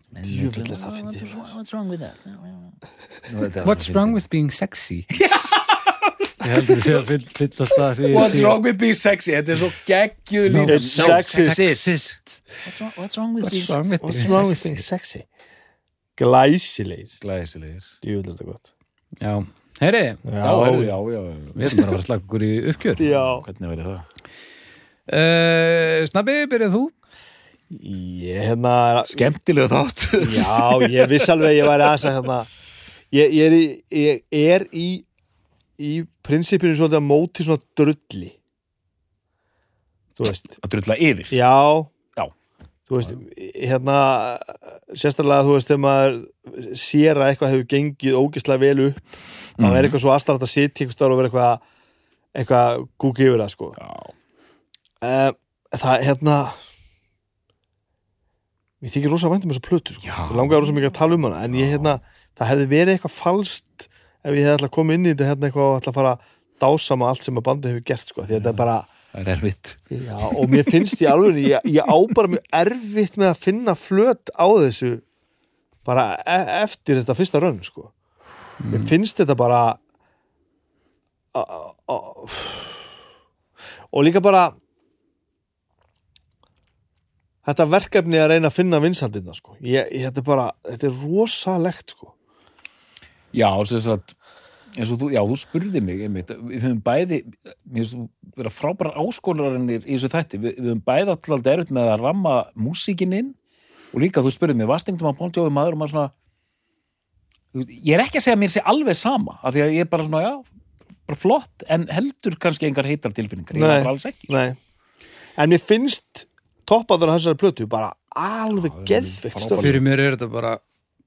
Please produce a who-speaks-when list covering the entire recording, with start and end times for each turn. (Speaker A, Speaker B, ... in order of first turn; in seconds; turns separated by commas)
Speaker A: 0.1-4.2, Speaker B: 0.2-1.5, Speaker C: 3.6-5.1, Speaker A: 5.1-7.0, Speaker C: 6.4-8.6, Speaker A: 8.1-14.7, Speaker C: 10.5-12.3, Speaker B: 10.7-11.6, Speaker C: 13.4-14.6, Speaker B: 14.0-15.3, Speaker B: 16.2-17.1, Speaker A: 17.2-17.9, Speaker B: 18.0-18.7, Speaker C: 19.2-20.2, Speaker B: 20.2-20.9, Speaker A: 20.4-21.9, Speaker C: 21.5-23.1, Speaker B: 23.0-23.4, Speaker A: 23.1-24.1, Speaker C: 25.1-26.9, Speaker B: 27.7-29.3, Speaker A: 29.0-31.5, Speaker B: 30.2-32.5, Speaker B: 33.1-35.0, Speaker B: 35.8-38.4, Speaker B: 40.2-40.5, Speaker A: 40.6-41.4, Speaker B: 41.3-41.9, Speaker B: 42.9-51.6, Speaker A: 49.6-50.0, Speaker B: 52.3-53.8, Speaker A: 53.8-54.1, Speaker B: 55.0-56.5, Speaker B: 58.8-68.9, Speaker A: 60.0-60.7, Speaker A: 61.5-62.0, Speaker A: 68.3-69.8, Speaker B: 69.9-75.0, Speaker B: 75.8-77.9, Speaker C: 78.6-78.9, Speaker B: 78.7-79.8, Speaker B: 81.3-82.8, Speaker B: 83.9-84.5, Speaker B: 87.4-92.1, Speaker A: 93.3-94.1, Speaker A: 94.8-103.3, Speaker A: 103.9-106.1, Speaker A: 107.5-110.4, Speaker A: 111.1-114.3, Speaker B: 113.5-114.6, Speaker B: 115.4-119.8, Speaker A: 118.5-119.8, Speaker C: 119.6-120.6